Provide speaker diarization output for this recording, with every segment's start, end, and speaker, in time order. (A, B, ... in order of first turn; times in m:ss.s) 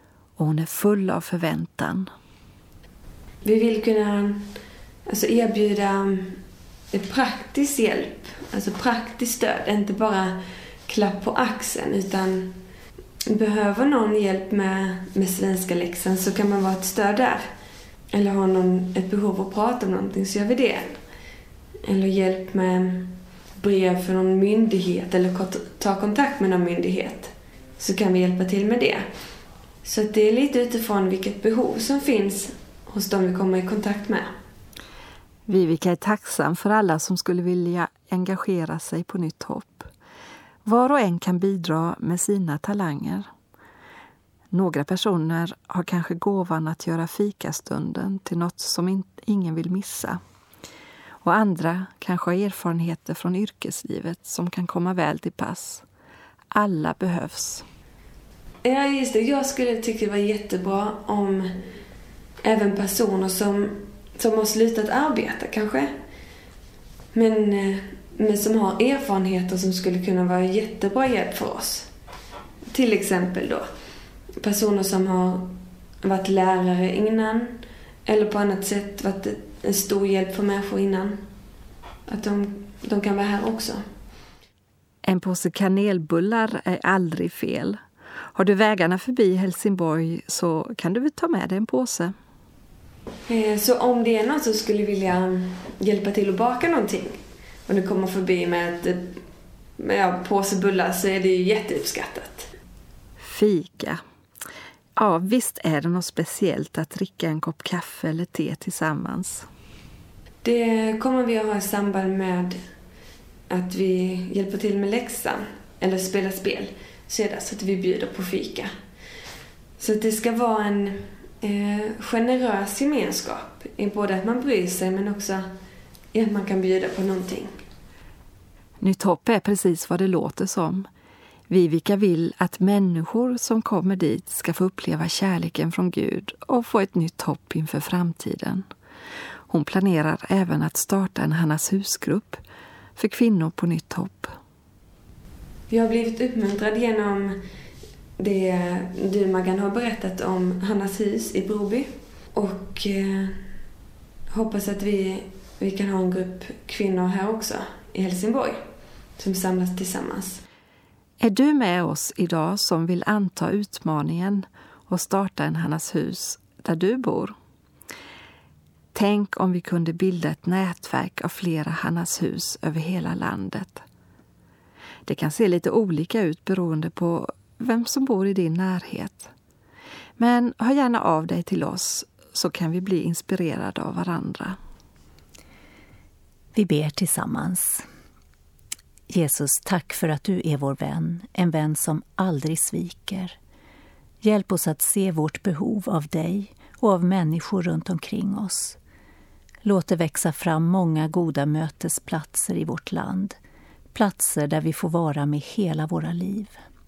0:00.4-0:02.1 A
0:03.4-0:04.5 B
0:05.1-0:12.6 B
0:13.3-0:17.5 B
0:18.1-0:21.0 B
0:21.8-0:29.0 B
0:29.8-0:34.3 B
0:35.5-0:39.9 A
0:40.6-0:43.3 A
0:44.5-0:50.2 A
0:51.2-0:55.8 A
0:56.5-0:57.6 A
0:58.6-1:01.5 B
1:02.4-1:06.0 B
1:07.1-1:11.9 B
1:12.7-1:13.7 B
1:14.4-1:21.2 B
1:22.1-1:23.8 B
1:25.0-1:27.8 A
1:28.3-1:32.1 A
1:33.3-1:39.2 B
1:39.8-1:42.5 B
1:43.2-1:44.0 A
1:45.0-1:49.4 A
1:50.4-1:52.6 B
1:53.5-1:58.7 B
1:59.8-2:05.5 B
2:06.1-2:07.6 B
2:08.8-2:10.9 A
2:11.5-2:18.6 A
2:19.5-2:22.4 A
2:23.0-2:24.3 A
2:25.7-2:27.4 B
2:28.2-2:33.4 B
2:34.3-2:38.6 B
2:39.2-2:40.4 B
2:41.2-2:47.3 A
2:48.9-2:53.8 A
2:55.0-2:59.3 A
3:00.2-3:04.6 A
3:06.5-3:07.8 C
3:09.1-3:13.4 C
3:14.2-3:18.8 C
3:19.6-3:23.4 C
3:23.9-3:26.6 C